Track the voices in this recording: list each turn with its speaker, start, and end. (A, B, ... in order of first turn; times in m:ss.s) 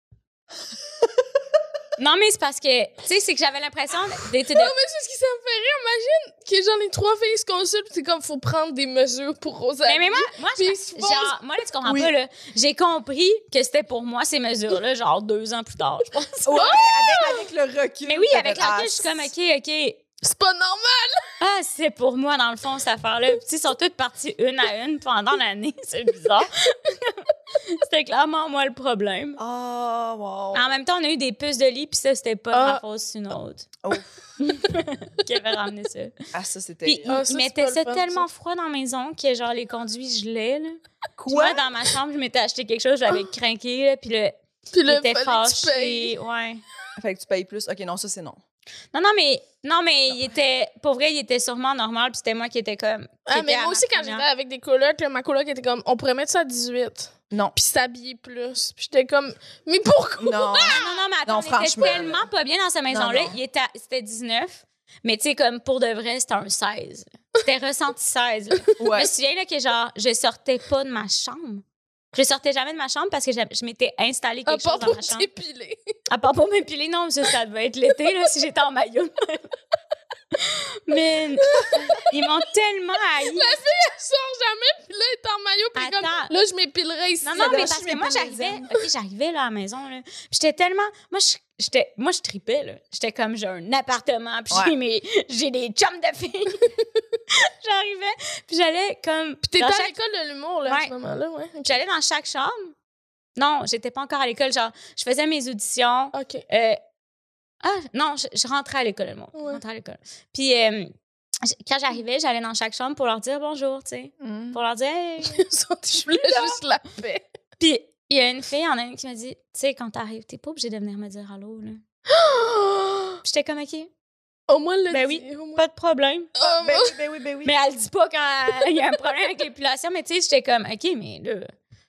0:02.0-0:04.7 A
0:04.5-0:11.4 B
0:09.8-0:16.8 A
0:11.8-0:12.1 C
0:16.4-0:19.3 C
0:16.6-0:17.4 B
0:18.1-0:20.0 A
0:20.2-0:21.2 B
0:21.4-0:29.4 A
0:29.4-0:30.6 C
0:30.5-0:33.7 A
0:32.5-0:32.8 B
0:33.8-0:34.2 C
0:34.4-0:36.2 A
0:36.3-0:37.2 C
0:36.8-0:46.6 A
0:37.1-0:38.3 B
0:41.2-0:41.6 C
0:44.7-0:46.1 B
0:47.0-0:48.4 C
0:48.9-0:54.3 A
0:53.3-1:00.8 B
1:00.2-1:02.3 C
1:00.7-1:15.3 A
1:02.9-1:03.4 C
1:08.8-1:09.1 C
1:14.5-1:15.9 B
1:16.1-1:19.5 A
1:20.4-1:23.6 A
1:21.5-1:22.2 B
1:23.2-1:27.8 B
1:25.8-1:26.3 A
1:27.2-1:36.7 A
1:27.4-1:28.8 C
1:37.6-1:39.9 A
1:39.4-1:41.8 B
1:40.6-1:40.9 A
1:41.7-1:42.8 A
1:43.4-1:46.8 A
1:46.1-1:46.4 B
1:47.6-1:55.4 A
1:49.4-1:49.6 B
1:54.2-1:54.6 C
1:55.3-1:57.2 B
1:56.3-1:56.6 C
1:57.6-2:01.8 A
2:02.1-2:03.2 B
2:03.2-2:03.9 A
2:04.5-2:05.6 B
2:04.9-2:06.3 A
2:06.4-2:07.0 B
2:06.4-2:07.5 C
2:07.4-2:11.5 A